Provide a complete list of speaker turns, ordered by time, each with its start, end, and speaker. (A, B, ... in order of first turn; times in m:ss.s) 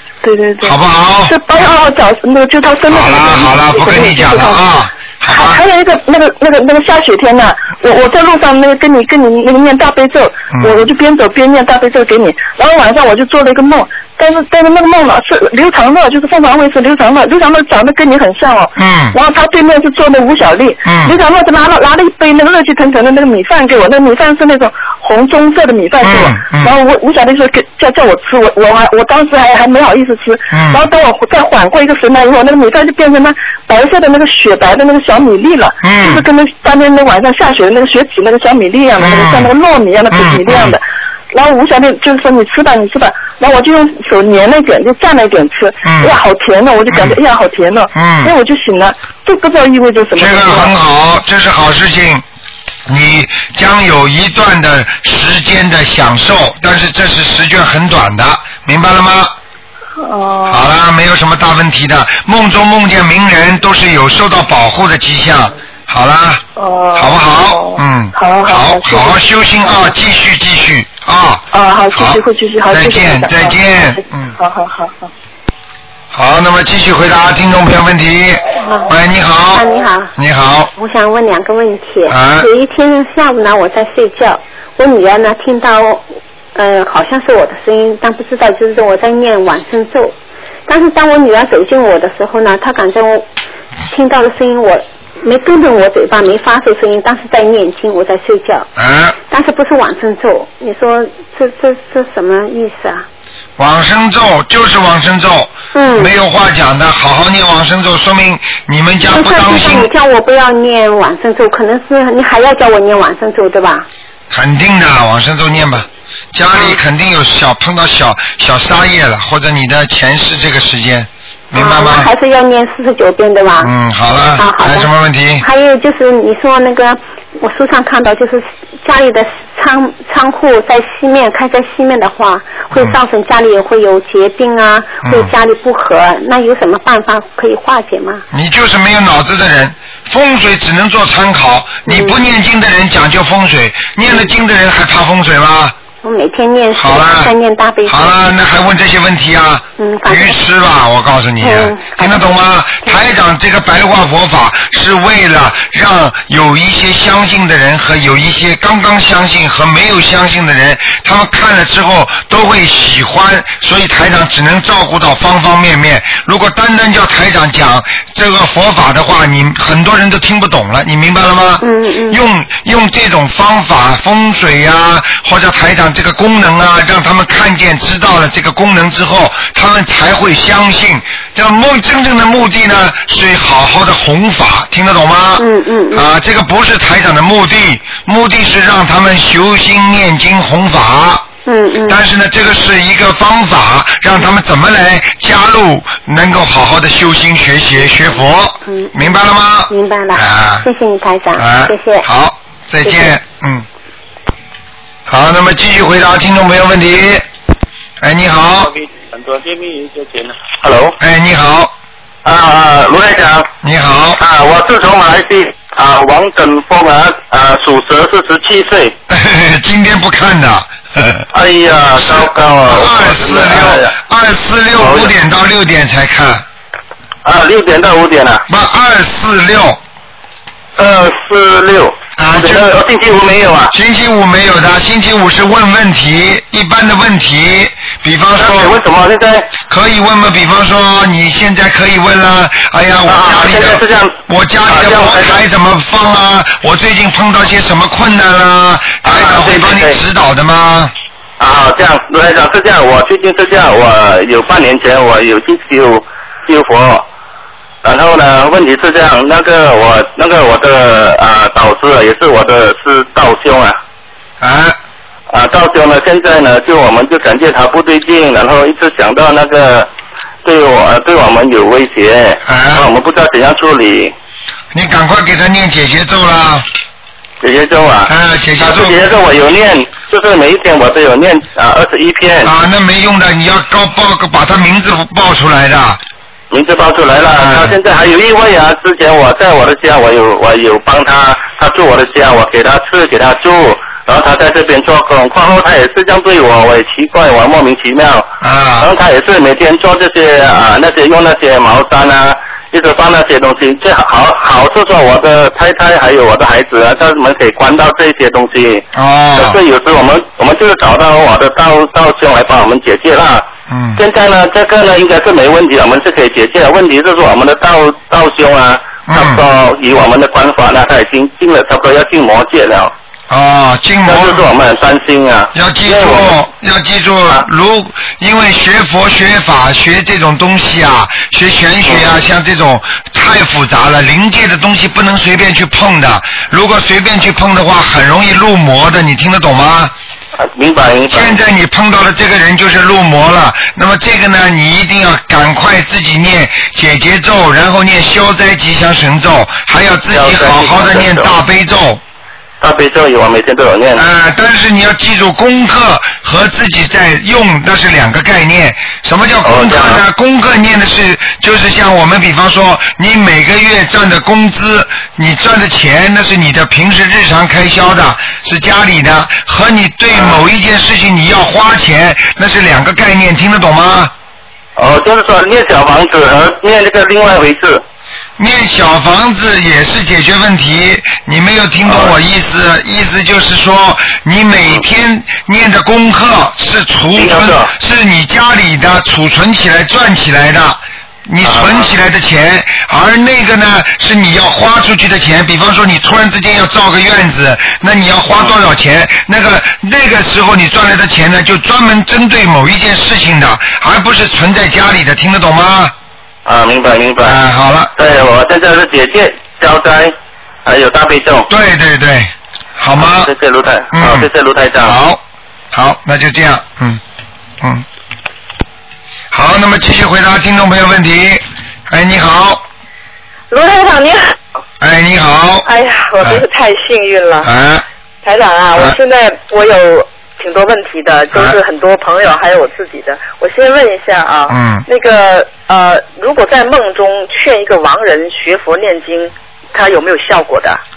0:00.2-0:04.6 A
0:00.6-0:01.4 B
0:02.9-0:05.6 B
0:05.3-0:50.7 A
0:18.8-0:19.2 B
0:20.8-0:21.2 B
0:26.0-0:26.8 B
0:30.5-0:30.8 B
0:35.8-0:36.2 B
0:39.0-0:39.5 B
0:40.1-0:40.8 B
0:45.8-0:46.2 B
0:46.9-0:47.2 B
0:48.0-0:48.3 B
0:50.2-0:52.2 B
0:52.9-0:59.4 B
1:00.0-1:00.7 A
1:00.5-1:06.4 B
1:06.6-1:09.2 A
1:07.0-1:14.3 B
1:11.5-1:15.1 A
1:16.1-1:20.7 B
1:18.6-1:18.9 C
1:19.5-1:20.1 C
1:20.8-1:30.2 C
1:22.1-1:22.5 B
1:30.7-1:33.3 C
1:33.9-1:38.7 C
1:38.8-1:39.2 B
1:39.3-1:43.1 C
1:43.6-1:49.9 B
1:45.7-1:46.1 C
1:49.1-1:53.9 C
1:54.3-2:02.1 B
1:56.5-1:56.8 C
2:01.5-2:03.7 C
2:03.6-2:05.4 B
2:04.4-2:18.2 C
2:12.7-2:13.0 B
2:15.0-2:15.3 B
2:18.3-2:25.8 B
2:21.8-2:22.2 C
2:26.0-2:28.2 C
2:26.8-2:27.3 B
2:27.9-3:11.3 B
2:29.8-2:30.4 C
2:31.4-2:33.0 C
2:51.6-2:52.2 C
3:05.4-3:06.1 C
3:11.4-3:12.0 C
3:11.9-3:20.7 B
3:18.7-3:22.1 C
3:21.4-3:23.7 B
3:22.8-3:23.2 C
3:25.1-3:27.2 B
3:28.0-3:28.7 B
3:28.8-3:31.0 D
3:31.0-3:31.7 B
3:32.2-3:33.5 D
3:33.6-3:34.2 B
3:34.2-3:39.0 D
3:39.1-3:41.3 B
3:41.3-3:43.9 D
3:42.0-3:46.4 B
3:44.8-3:45.1 D
3:47.2-3:48.4 D
3:48.5-3:49.8 B
3:50.8-3:53.7 D
3:52.2-3:52.8 B
3:53.7-3:58.8 B
3:58.4-3:59.5 D
3:59.7-4:10.9 B
4:03.1-4:04.2 D
4:04.7-4:05.4 D
4:09.0-4:10.0 D
4:11.4-4:17.1 D
4:17.8-4:23.8 D
4:24.4-4:24.8 B
4:25.3-4:29.9 D
4:30.4-4:34.1 D
4:32.4-4:32.9 B
4:34.7-4:36.7 B
4:37.4-4:42.5 D
4:38.1-4:39.1 B
4:42.4-4:46.0 B
4:46.5-4:58.3 D
4:47.4-4:47.8 B
4:58.4-4:58.9 B
4:58.8-5:22.9 D
5:08.9-5:09.6 B
5:13.7-5:14.0 B
5:19.1-5:19.4 B
5:23.3-5:24.5 B
5:24.1-5:26.3 D
5:25.5-5:39.9 B
5:40.4-5:41.4 D
5:41.1-5:52.0 B
5:50.1-5:51.3 D
5:52.6-5:54.0 D
5:54.0-6:14.1 B
5:59.4-6:00.0 D
6:10.2-6:10.4 D
6:14.8-6:17.8 D
6:18.4-6:45.9 B
6:21.9-6:22.2 D
6:27.2-6:27.7 D
6:31.4-6:31.9 D
6:46.5-6:47.4 D
6:47.2-6:47.9 B
6:48.0-6:51.5 D
6:51.5-6:53.3 B
6:53.0-6:55.0 D
6:53.9-6:54.3 B
6:54.8-6:55.2 B
6:55.7-6:57.0 B
6:59.3-7:02.6 B
7:03.5-7:04.4 E
7:04.8-7:05.7 B
7:05.6-7:07.5 E
7:07.4-7:07.8 B
7:08.2-7:20.8 E
7:14.5-7:14.8 B